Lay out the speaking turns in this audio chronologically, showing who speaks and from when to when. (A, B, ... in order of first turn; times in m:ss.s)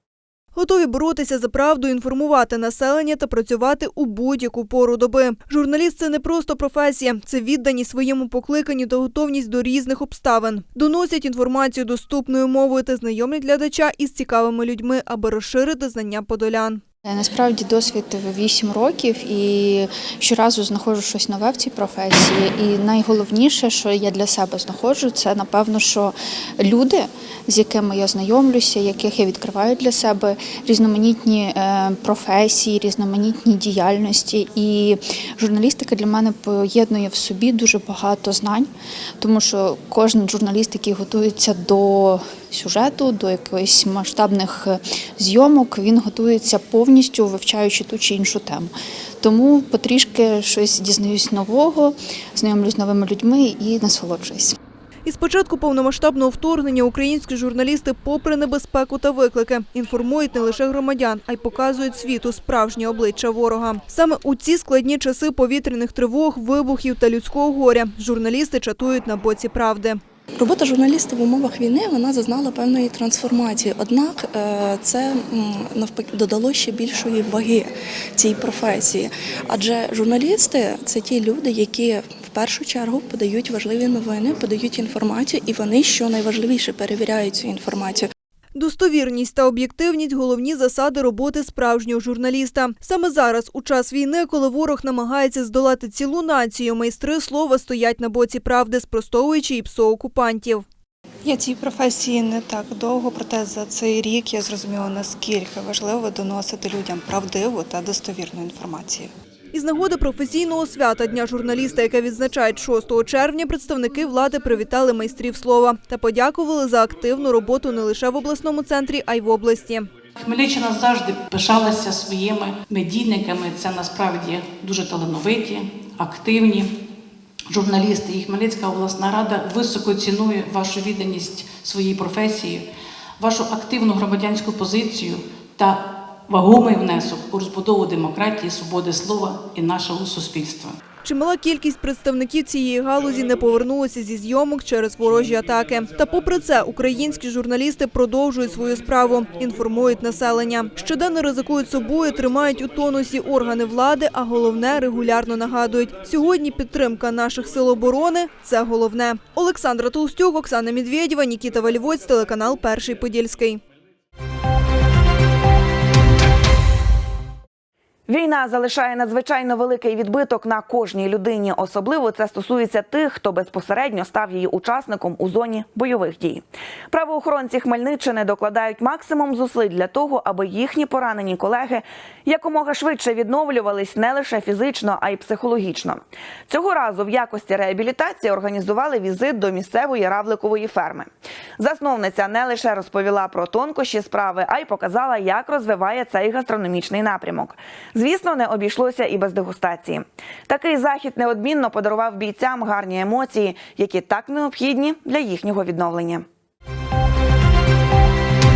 0:00.5-0:16.8 A
0:17.0-0:54.6 B
0:55.0-1:10.0 A
1:10.5-1:17.6 C
1:18.2-1:28.0 C
1:28.5-1:40.6 A
1:41.2-1:49.1 D
1:49.5-1:59.9 A
2:00.2-2:06.7 E
2:07.5-2:12.6 E
2:13.2-2:15.8 E
2:16.3-2:20.7 E
2:21.0-2:43.6 A
2:48.1-3:26.2 F